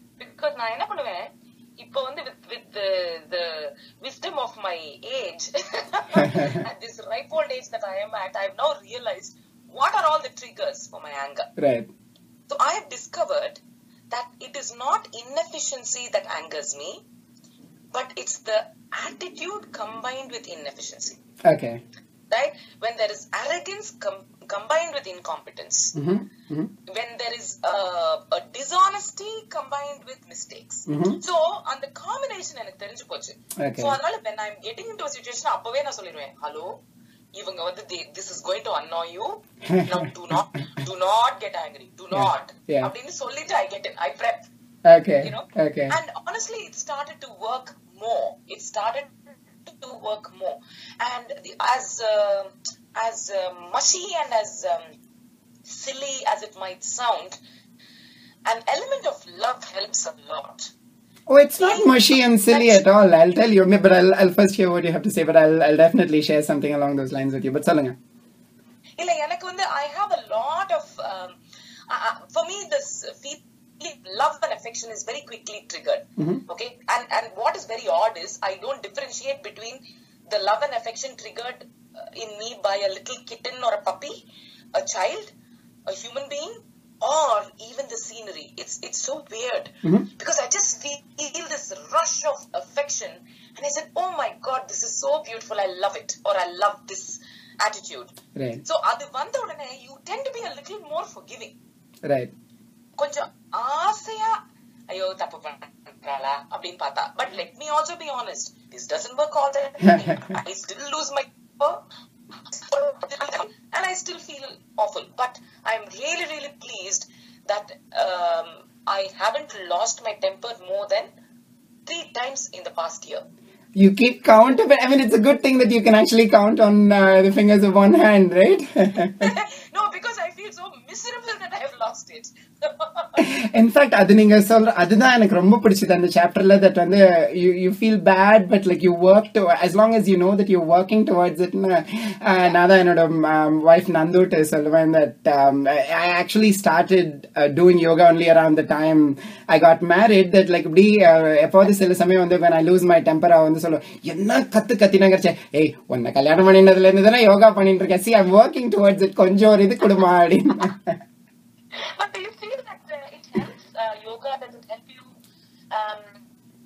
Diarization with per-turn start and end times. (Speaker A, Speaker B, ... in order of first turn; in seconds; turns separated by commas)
Speaker A: 0.2-11.5, Speaker B: 11.6-11.9, Speaker A: 12.5-17.0, Speaker A: 17.9-21.2, Speaker B: 21.5-21.8, Speaker A: 22.3-26.0, Speaker B: 25.9-26.7, Speaker A: 26.9-36.7, Speaker B: 30.9-31.2, Speaker B: 33.6-34.0, Speaker A: 37.4-44.5, Speaker B: 42.1-42.9, Speaker B: 44.9-46.0, Speaker A: 45.2-54.9, Speaker A: 55.7-57.4, Speaker A: 58.5-60.7, Speaker B: 61.3-68.0, Speaker A: 61.6-62.8, Speaker A: 69.0-71.4, Speaker A: 71.9-84.2, Speaker A: 84.7-85.3, Speaker A: 85.9-101.5, Speaker B: 98.4-98.6, Speaker B: 102.1-102.3, Speaker A: 103.0-104.3, Speaker A: 104.9-111.8, Speaker B: 109.9-110.3, Speaker A: 112.4-121.1, Speaker A: 121.9-123.2, Speaker B: 123.8-129.3, Speaker A: 129.2-133.2, Speaker B: 133.2-161.0, Speaker A: 161.8-165.2, Speaker A: 165.7-166.2